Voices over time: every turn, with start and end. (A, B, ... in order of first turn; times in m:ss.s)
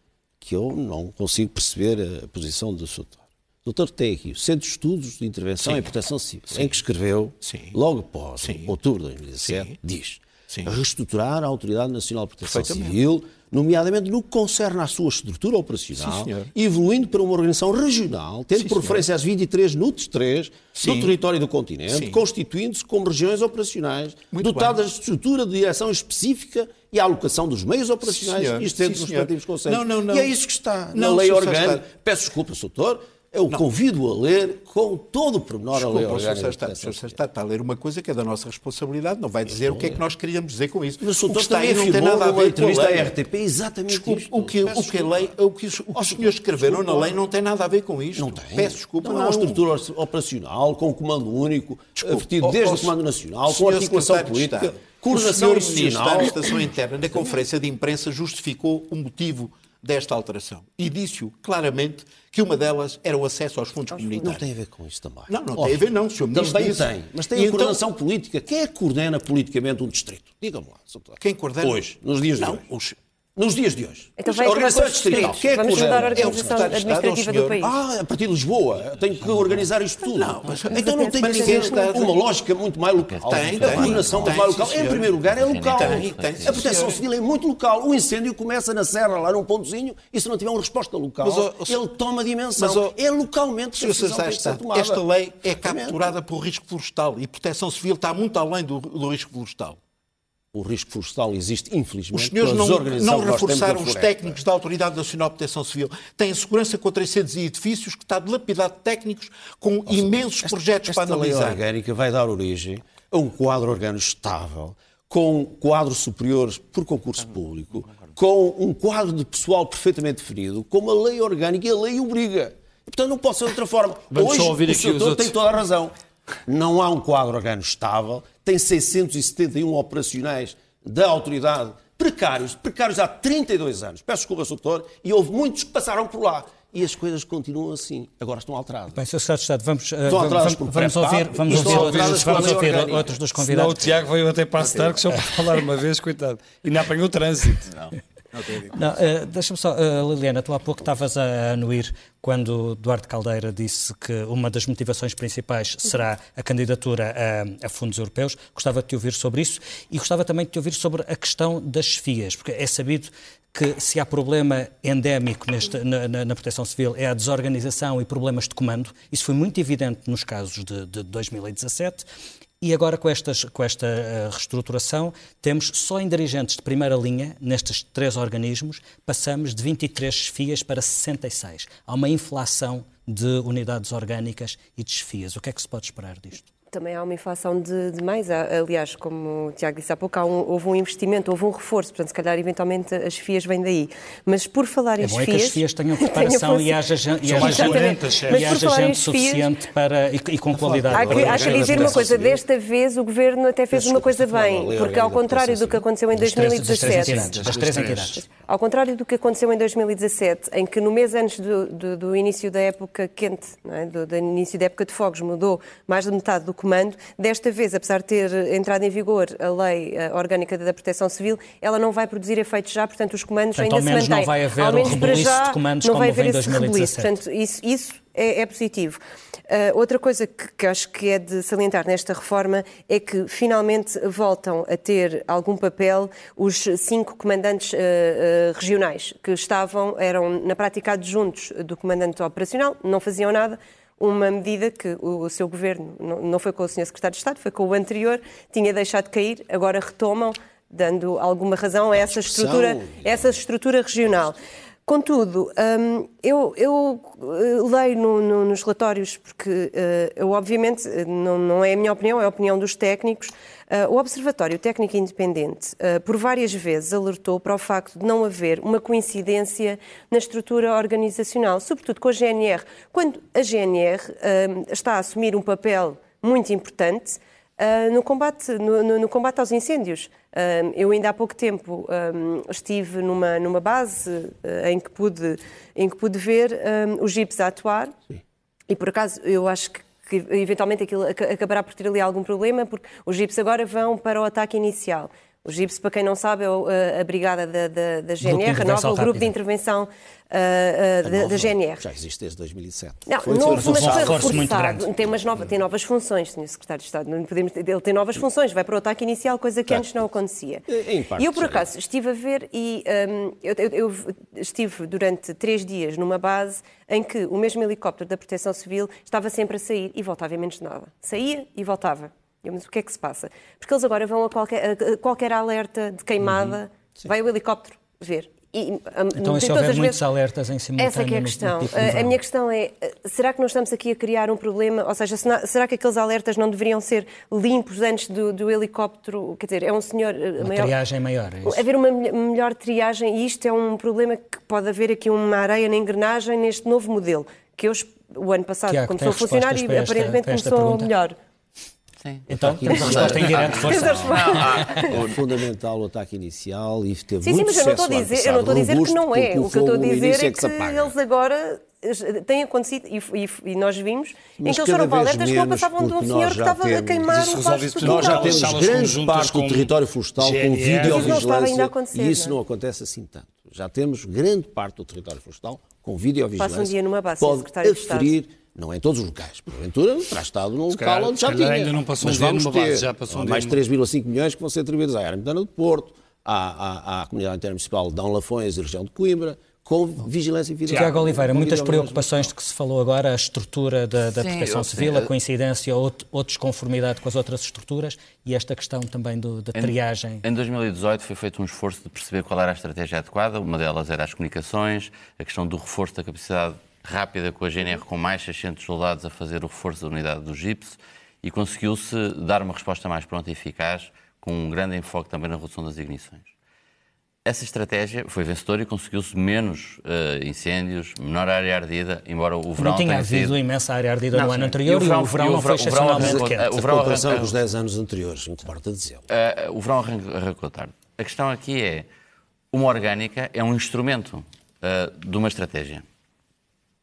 0:00.4-0:37.2 A
0:05.6-0:05.9 B
0:06.5-0:06.8 B
0:07.4-0:07.8 B
0:08.4-0:08.7 B
0:09.4-0:09.8 B
0:12.4-0:13.0 B
0:16.0-0:16.5 B
0:18.6-0:19.0 B
0:20.8-0:21.1 B
0:21.9-0:22.2 B
0:24.3-0:24.8 B
0:28.0-0:30.3 B
0:30.9-0:31.8 B
0:35.7-0:43.1 B
0:39.4-0:40.0 A
0:41.0-0:45.4 A
0:43.9-0:49.6 B
0:45.9-0:47.2 A
0:48.2-0:56.6 A
0:52.0-0:52.9 B
0:53.4-1:04.4 B
1:03.9-1:04.4 C
1:04.2-1:12.7 A
1:05.3-1:07.8 B
1:11.2-1:11.8 B
1:12.4-1:13.0 B
1:13.4-1:16.9 A
1:14.2-1:17.7 C
1:14.3-1:17.6 B
1:17.6-1:36.2 A
1:20.1-1:22.2 B
1:20.7-1:22.0 C
1:23.1-1:24.5 D
1:23.3-1:25.2 B
1:25.2-1:26.6 D
1:25.7-1:27.0 B
1:31.2-1:31.8 B
1:32.6-1:32.9 B
1:33.8-1:39.8 B
1:40.5-1:44.4 A
1:42.1-1:51.6 B
1:49.9-2:05.9 A
2:04.1-2:05.4 E
2:06.5-2:19.0 A
2:19.0-2:24.0 F
2:20.0-2:23.1 A
2:21.5-2:22.7 E
2:23.4-2:27.8 E
2:28.4-2:28.7 D
2:28.6-2:52.1 F
2:52.6-3:06.5 F
3:06.7-3:19.5 C
3:15.0-3:22.2 F
3:17.2-3:18.6 E
3:20.5-3:22.4 A
3:20.9-4:48.0 C
3:23.7-3:25.8 A
3:26.2-3:28.2 F
3:26.6-3:28.2 E
3:43.6-3:47.2 F
4:11.9-4:13.4 A
4:48.7-5:01.8 C
4:58.2-4:59.3 F
5:01.0-5:04.9 A
5:03.1-5:10.6 C
5:03.4-5:04.9 F
5:09.7-5:10.0 A
5:10.7-5:11.7 A
5:11.2-5:30.0 C
5:26.3-5:26.5 A
5:29.1-5:32.2 F
5:30.8-5:40.7 C
5:40.4-5:41.6 F
5:41.4-5:51.2 C
5:48.7-5:50.9 F
5:52.0-5:55.2 D
5:52.3-5:54.9 F
5:52.3-6:01.0 A
5:52.7-5:55.0 C
5:57.2-6:08.6 C
6:04.4-6:32.3 A
6:07.1-6:11.2 E
6:10.8-6:12.4 C
6:16.4-6:18.1 C
6:20.7-6:23.6 E
6:30.7-6:40.2 F
6:34.1-6:35.1 D
6:39.6-6:56.3 D
6:57.2-7:03.4 D
7:02.6-7:06.5 F
7:04.1-7:07.4 D
7:06.0-7:09.1 A
7:09.1-7:11.9 D
7:12.5-7:15.8 D